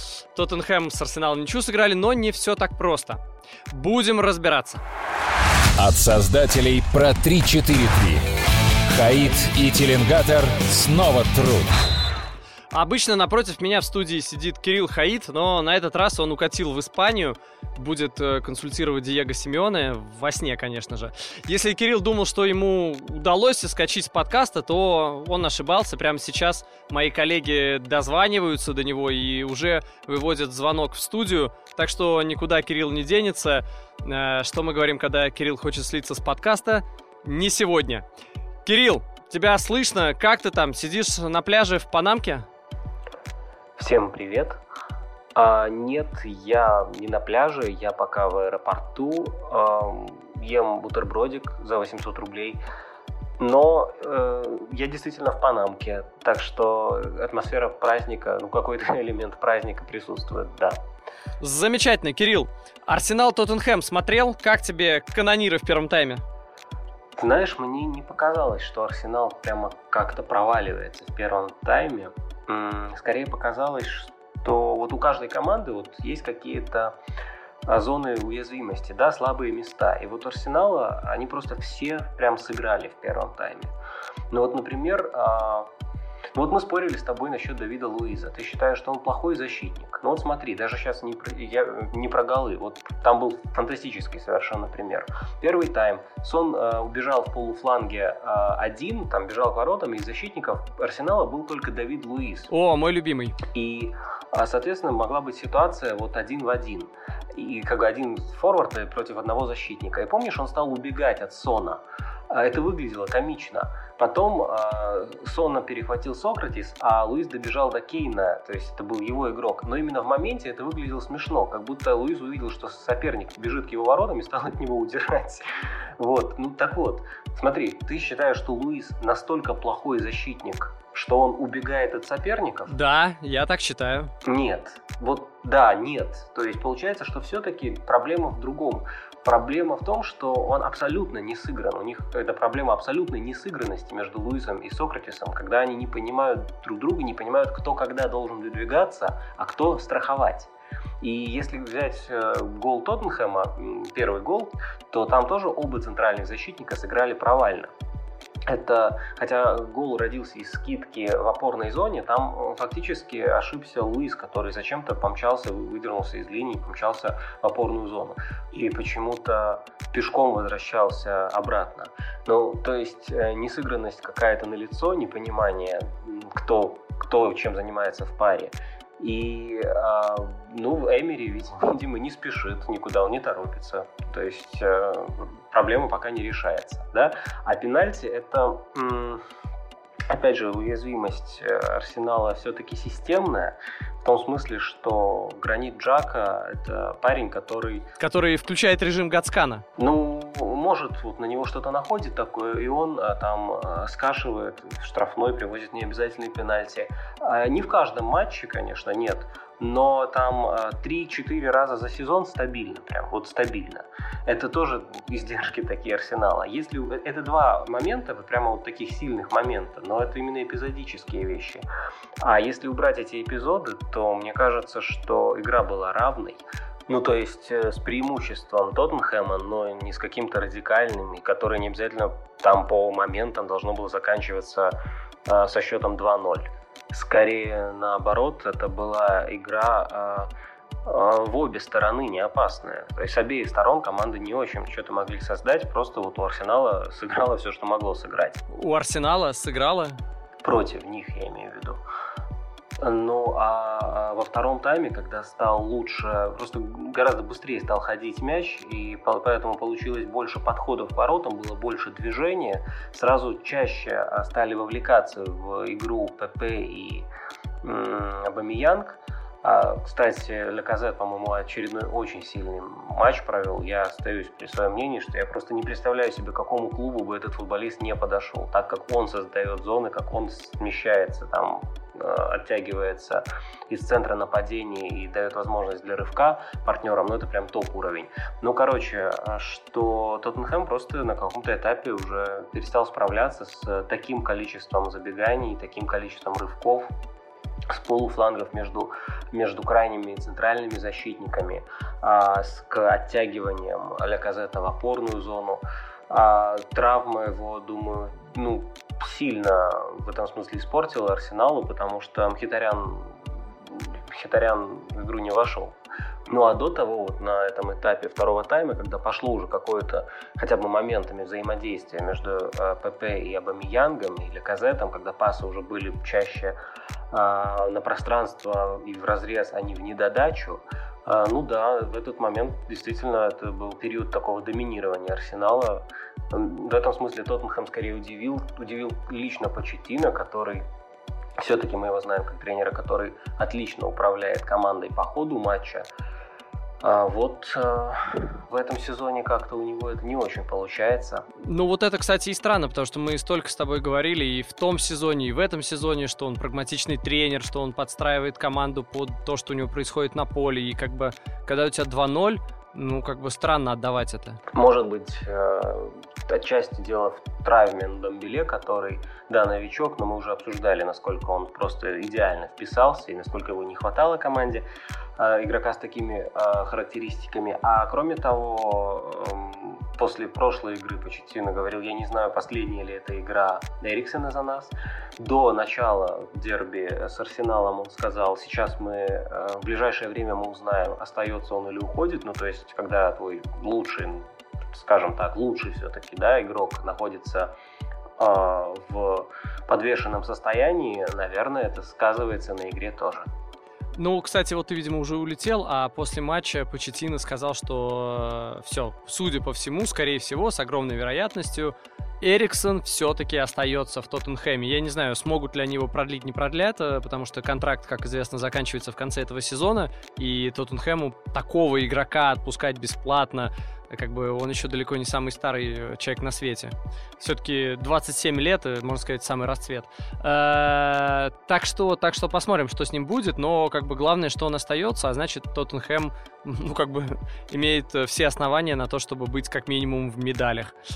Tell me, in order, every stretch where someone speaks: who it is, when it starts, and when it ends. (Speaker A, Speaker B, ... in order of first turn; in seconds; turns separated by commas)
Speaker A: 0.3-4.8, Speaker B: 5.8-8.2, Speaker B: 8.9-11.7, Speaker A: 12.7-38.0, Speaker A: 38.6-42.5, Speaker C: 43.8-44.6, Speaker C: 45.3-52.6, Speaker C: 53.4-60.8, Speaker A: 61.4-66.2, Speaker C: 67.2-77.0, Speaker C: 77.7-83.7, Speaker C: 84.3-85.7, Speaker C: 86.3-102.5, Speaker A: 102.5-103.4, Speaker C: 103.4-125.5, Speaker C: 126.0-132.7, Speaker A: 132.7-134.1, Speaker C: 134.2-157.7, Speaker C: 158.5-189.2, Speaker C: 190.1-197.9, Speaker A: 198.0-199.6, Speaker C: 199.8-221.7, Speaker C: 222.2-234.7, Speaker C: 235.2-240.3, Speaker C: 240.8-248.4, Speaker A: 248.5-250.0, Speaker C: 250.4-251.8, Speaker C: 252.8-267.1, Speaker C: 267.6-296.9, Speaker C: 297.7-315.8, Speaker C: 316.3-326.6, Speaker C: 327.1-340.6, Speaker C: 341.4-345.9, Speaker C: 346.8-351.2, Speaker A: 351.4-364.4, Speaker C: 364.5-374.6, Speaker C: 375.2-397.5, Speaker C: 398.2-403.3, Speaker A: 403.9-440.7